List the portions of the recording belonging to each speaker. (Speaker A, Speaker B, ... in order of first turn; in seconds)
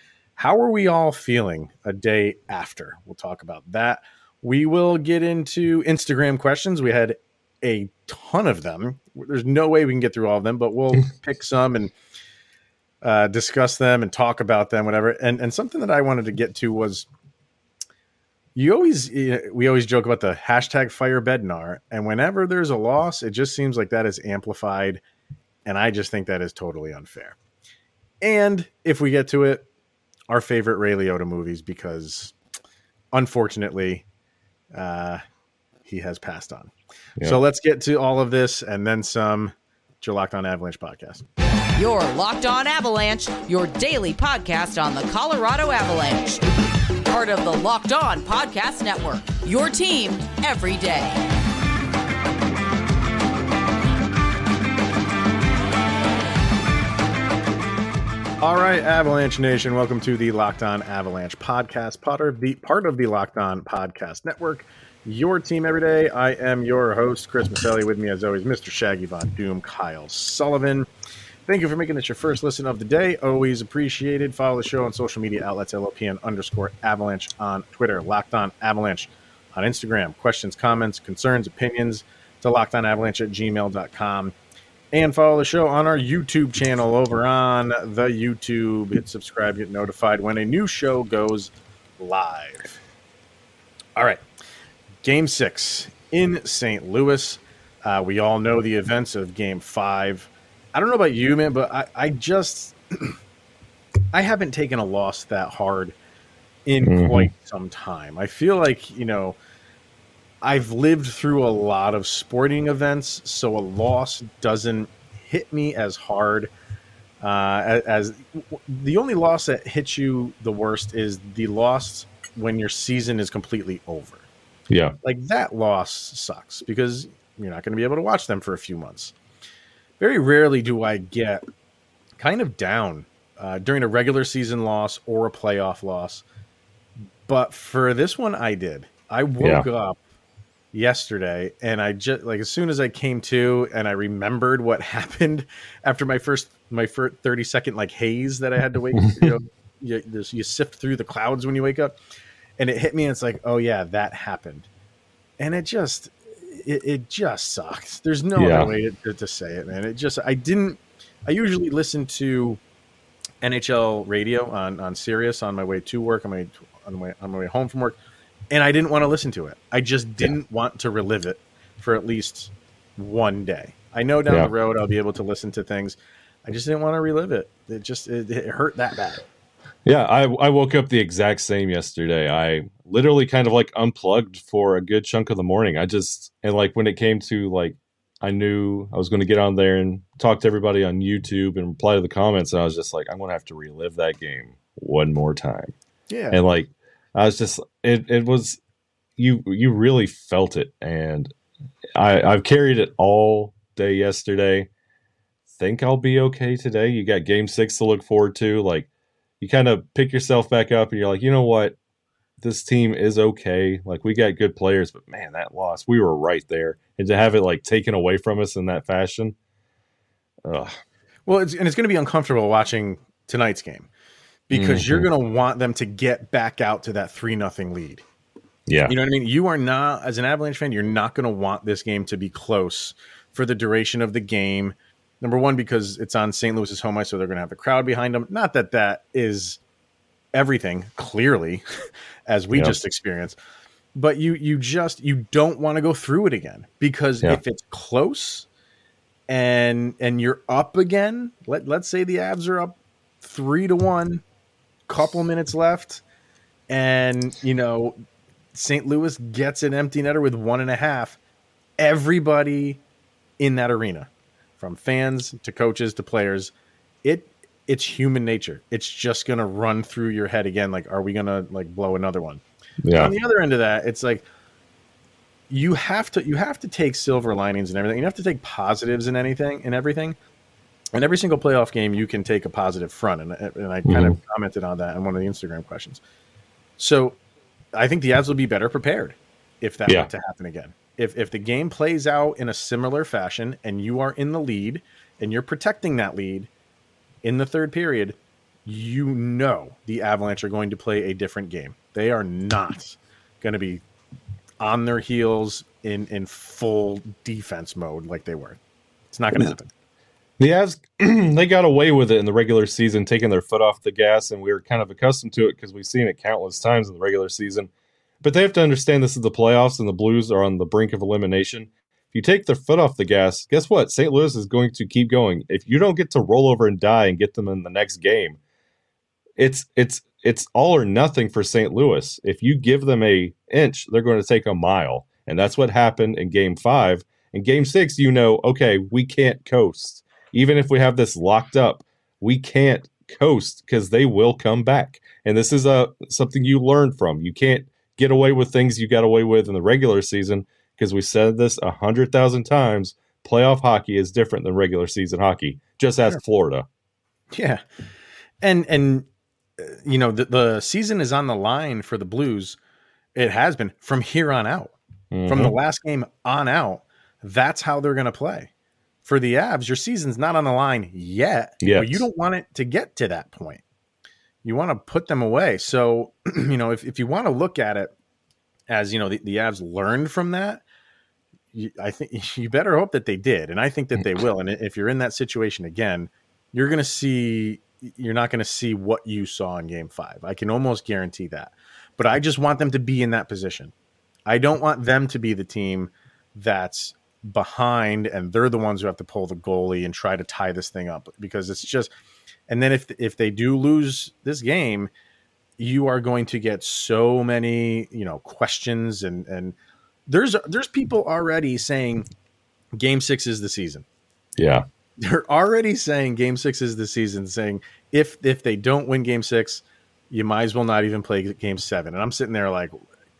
Speaker A: 0.3-11.9, 13.0-17.1, 18.5-25.0, 25.6-27.4, 28.2-29.6, 30.3-32.3, 33.1-34.0, 34.7-35.2, 35.8-41.2, 58.4-70.9, 71.5-84.3, 84.9-92.8, 94.0-94.2, 95.0-103.2, 104.1-105.9, 106.7-109.4, 110.4-116.5, 117.2-124.3, 125.0-129.1, 130.0-131.4, 132.2-136.2, 137.2-140.0, 140.7-151.9, 152.6-154.7, 155.4-162.6, 163.4-168.0, 168.5-179.2, 196.1-196.4, 221.2-223.9, 224.5-228.0, 228.8-239.6, 240.3-241.6, 242.3-243.4, 243.9-248.5, 249.3-254.2, 254.9-256.0, 256.7-258.0, 258.5-261.2, 261.8-262.8, 263.4-266.5, 267.0-274.2, 275.5-280.1, 280.9-286.0, 286.8-287.2, 287.7-296.5, 297.2-303.8, 304.6-308.6, 309.1-309.7, 357.3-357.6, 358.4-359.1, 359.6-362.6, 363.1-364.7, 365.3-368.5, 369.0-373.6, 374.4-377.9, 378.7-380.6, 381.5-393.7, 394.3-401.9, 402.5-404.9, 405.6-409.5, 410.1-412.1, 412.7-413.8, 415.0-422.8
Speaker B: 41.8-46.4, 47.0-51.2
Speaker C: 106.8-107.3, 124.7-125.0, 149.0-149.3, 158.4-158.7, 179.8-195.7, 196.3-198.6, 199.2-201.3, 201.9-204.7, 205.5-208.9, 209.4-211.8, 212.4-219.3, 220.4-220.7, 224.5-225.1, 228.7-228.9, 272.8-273.1, 283.8-284.2, 310.4-317.7, 318.2-328.4, 329.4-356.7, 365.1-365.6, 371.6-372.0, 414.4-414.6